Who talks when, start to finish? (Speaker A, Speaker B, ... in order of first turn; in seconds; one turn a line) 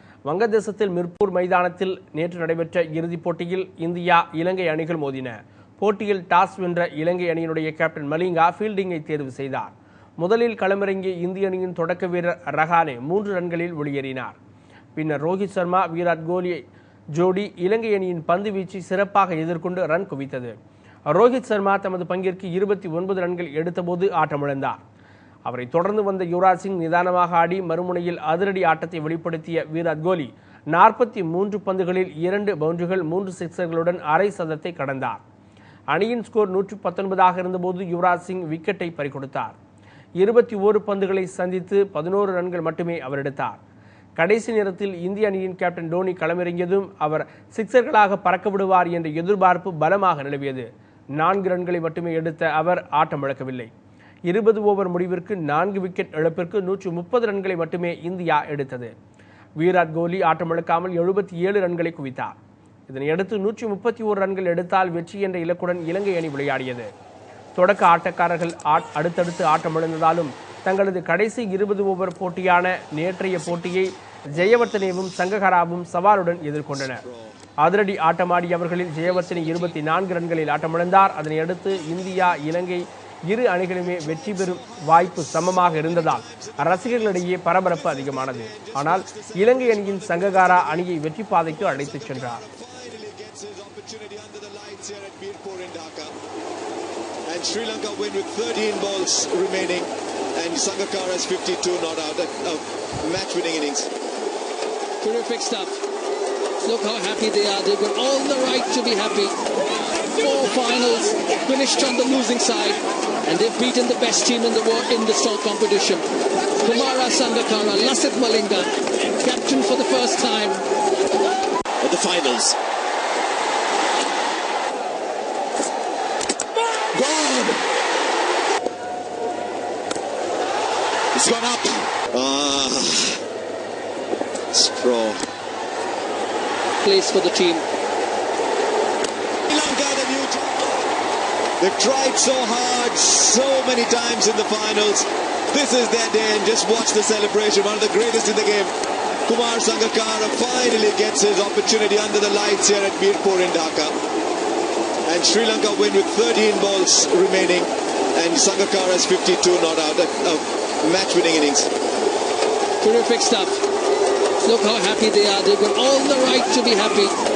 Speaker A: 0.3-14.4
Speaker A: 14.9-16.6
Speaker A: 17.1-20.5
Speaker A: 21.1-24.8
Speaker A: 25.4-35.2
Speaker A: 35.9-39.5
Speaker A: 40.2-43.6
Speaker A: 44.2-53.7
Speaker A: 54.3-58.9
Speaker A: 59.6-62.4
Speaker A: 62.9-66.9
Speaker A: 67.5-77.0
Speaker B: 76.9-77.4
Speaker A: 77.6-92.4
Speaker C: 79.2-79.7
Speaker B: 83.9-96.1
Speaker B: 97.3-103.9
Speaker C: 105.0-105.8
Speaker C: 106.6-109.3
Speaker C: 110.2-116.0
Speaker C: 116.6-120.6
Speaker B: 121.8-122.5
Speaker B: 126.9-127.6
Speaker B: 131.1-133.2
Speaker B: 134.5-135.2
Speaker C: 136.8-137.6
Speaker B: 139.5-140.8
Speaker B: 141.6-148.7
Speaker B: 149.2-154.0
Speaker B: 155.1-161.7
Speaker C: 162.8-163.6
Speaker C: 164.4-167.1